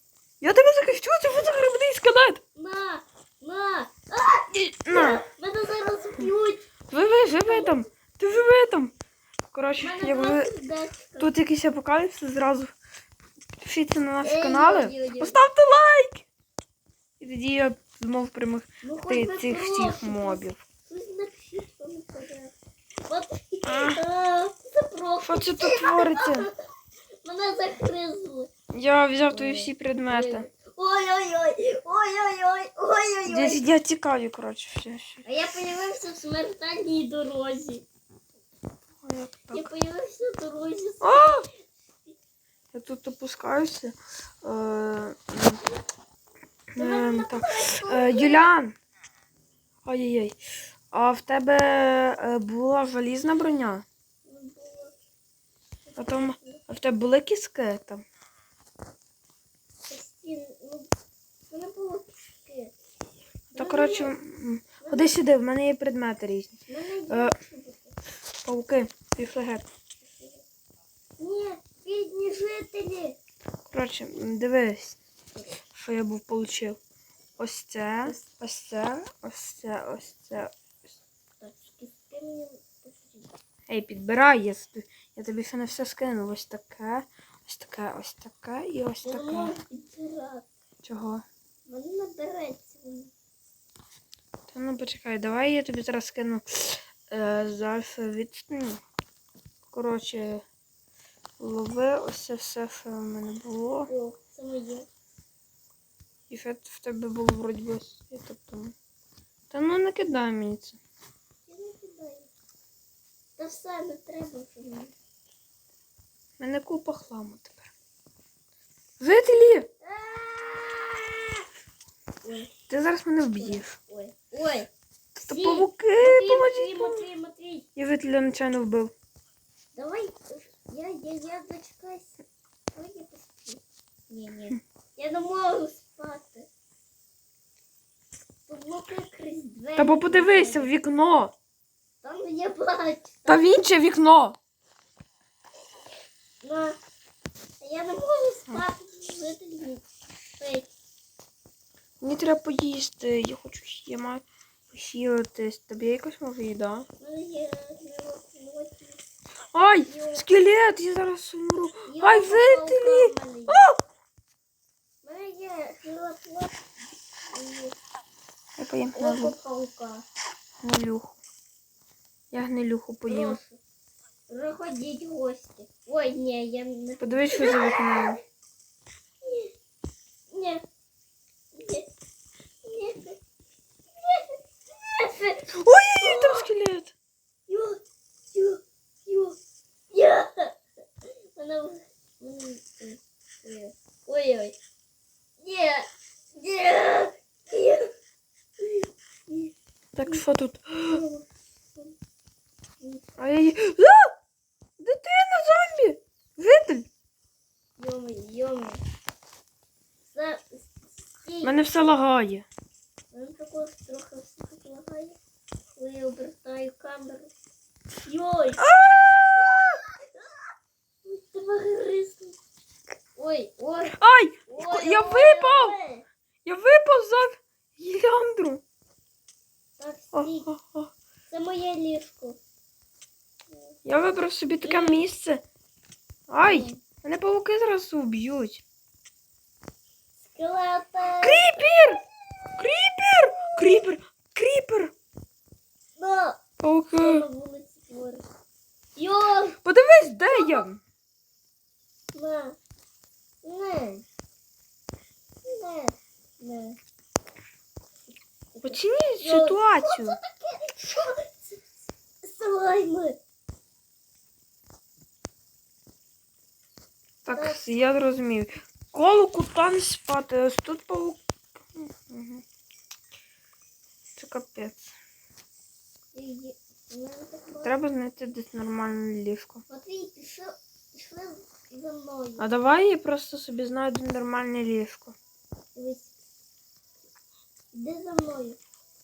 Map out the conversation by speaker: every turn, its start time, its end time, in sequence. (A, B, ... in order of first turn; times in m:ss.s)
0:00.4-0:02.4 A
0:02.5-0:07.8 B
0:04.5-0:05.2 A
0:06.9-0:08.9 A
0:09.5-0:10.5 A
0:09.8-0:11.3 B
0:11.2-0:12.7 A
0:13.6-0:16.2 A
0:14.2-0:15.4 B
0:17.2-0:20.6 A
0:18.8-0:22.5 B
0:23.1-0:26.6 B
0:23.6-0:24.0 A
0:25.2-0:26.5 A
0:27.2-0:28.5 B
0:28.7-0:30.5 A
0:29.3-0:33.6 B
0:33.3-0:35.2 A
0:35.2-0:37.8 B
0:39.0-0:39.7 A
0:39.5-0:41.5 B
0:41.0-0:41.4 A
0:42.7-0:45.6 A
0:46.7-0:48.8 A
0:46.8-0:48.5 B
0:49.8-0:50.4 A
0:50.9-0:53.8 A
0:54.2-0:54.9 B
0:55.9-0:56.6 B
0:56.0-0:58.0 A
0:59.9-1:00.9 B
1:01.5-1:02.7 B
1:03.5-1:07.3 A
1:03.5-1:04.1 B
1:04.8-1:05.2 B
1:06.7-1:08.0 B
1:08.4-1:09.7 A
1:10.0-1:10.4 B
1:11.2-1:13.2 B
1:13.7-1:15.0 A
1:15.7-1:16.8 A
1:17.4-1:20.9 A
1:18.0-1:18.3 B
1:21.4-1:23.3 B
1:23.7-1:29.5 A
1:29.0-1:30.4 B
1:30.8-1:31.2 A
1:31.7-1:33.1 B
1:34.5-1:38.8 A
1:39.7-1:40.4 A
1:41.4-1:43.9 A
1:43.9-1:44.9 B
1:46.3-1:48.7 A
1:49.5-1:50.8 A
1:51.5-1:52.3 B
1:53.4-1:54.9 B
1:56.4-1:57.7 A
1:59.0-1:59.7 A
1:59.8-2:01.3 B
2:02.2-2:02.5 B
2:02.7-2:03.7 A
2:03.3-2:04.7 B
2:05.2-2:07.1 A
2:05.3-2:07.6 B
2:07.8-2:08.9 A
2:09.7-2:12.1 B
2:12.7-2:16.5 B
2:18.5-2:20.7 B
2:19.8-2:21.3 A
2:22.0-2:23.5 B
2:23.3-2:24.4 A
2:26.4-2:26.8 B
2:27.6-2:29.8 B
2:30.4-2:30.7 B
2:32.0-2:36.9 A
2:37.0-2:39.0 B
2:39.5-2:43.7 A
2:39.8-2:40.3 B
2:41.8-2:43.7 B
2:45.0-2:46.6 B
2:47.3-2:47.8 B
2:48.6-2:49.4 A
2:48.9-2:50.0 B
2:50.6-2:51.2 A
2:52.3-2:53.4 A
2:53.1-2:53.6 B
2:54.3-2:58.2 B
2:57.0-2:58.2 A
2:59.2-2:59.5 B
3:00.3-3:00.6 B
3:01.5-3:01.9 B
3:02.6-3:03.2 B
3:04.0-3:06.5 B
3:05.5-3:06.9 A
3:07.5-3:07.8 B
3:08.3-3:09.4 B
3:09.9-3:10.6 B
3:11.3-3:14.6 B
3:15.4-3:17.9 B
3:18.6-3:20.2 B
3:19.9-3:21.0 A
3:20.9-3:22.0 B
3:23.2-3:24.1 A
3:24.8-3:26.9 A
3:27.8-3:28.8 B
3:30.1-3:31.6 B
3:31.4-3:32.4 A
3:33.1-3:35.2 B
3:35.8-3:37.3 B
3:38.0-3:38.7 B
3:38.6-3:39.8 A
3:39.4-3:40.5 B
3:41.0-3:42.4 B
3:43.2-3:46.0 B
3:44.0-3:45.8 A
3:46.4-3:48.6 A
3:49.8-3:50.5 B
3:50.1-3:50.9 A
3:51.3-3:52.4 B
3:53.5-3:53.8 B
3:53.8-3:55.4 A
3:54.6-3:55.0 B
3:56.3-3:58.6 A
3:56.4-3:56.8 B
4:00.2-4:02.0 B
4:01.2-4:02.0 A
4:02.6-4:04.9 A
4:06.0-4:06.4 B
4:06.6-4:07.3 A
4:07.0-4:08.2 B
4:09.0-4:09.6 B
4:09.6-4:10.8 A
4:10.3-4:10.7 B
4:12.1-4:12.6 B
4:13.4-4:14.0 B
4:15.4-4:16.8 B
4:18.5-4:21.6 B
4:18.6-4:20.2 A
4:22.2-4:23.2 B
4:27.2-4:32.4 A
4:27.3-4:27.6 B
4:34.2-4:34.9 A
4:36.1-4:37.8 B
4:37.6-4:39.6 A
4:39.7-4:42.5 B
4:42.4-4:45.1 A
4:45.7-4:46.1 B
4:47.7-4:48.6 B